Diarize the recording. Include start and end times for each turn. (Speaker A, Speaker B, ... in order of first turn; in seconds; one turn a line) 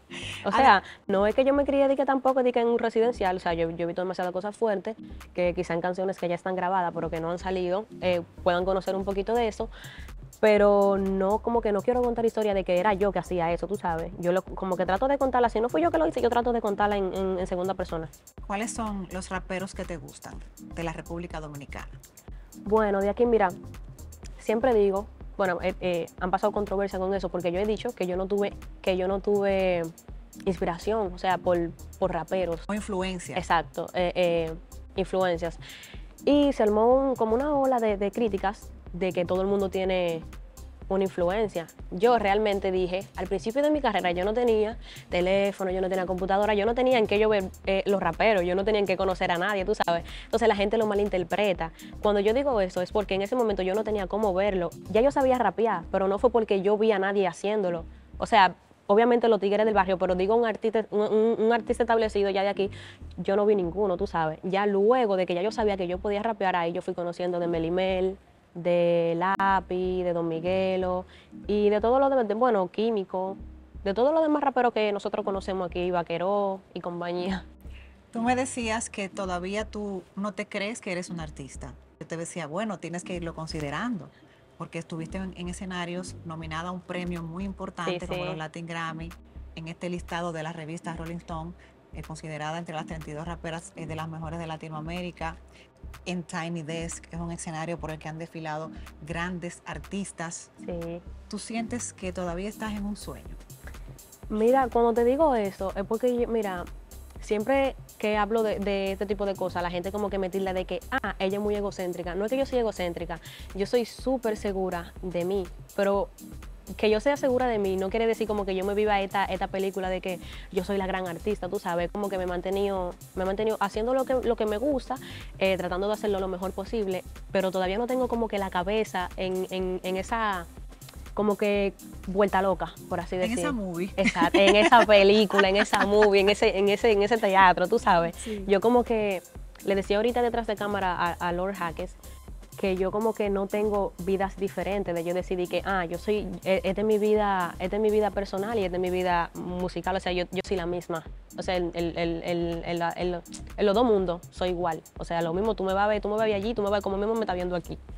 Speaker A: 0.5-0.8
Speaker B: 0.5-9.7
Speaker B: 10.4-18.1
Speaker A: 18.4-21.9
Speaker B: 22.6-23.6
Speaker B: 24.4-29.9
Speaker B: 30.5-32.7
Speaker A: 32.7-33.4
Speaker B: 33.4-35.6
Speaker B: 36.3-40.2
Speaker B: 40.9-77.4
Speaker A: 78.1-95.4
Speaker B: 87.8-88.4
Speaker A: 96.1-100.5
Speaker B: 100.6-101.0
Speaker A: 101.3-103.4
Speaker B: 104.3-106.7
Speaker B: 107.2-116.1
Speaker B: 116.8-130.5
Speaker B: 131.2-142.0
Speaker A: 133.2-135.9
Speaker A: 138.2-138.5
Speaker B: 142.6-157.8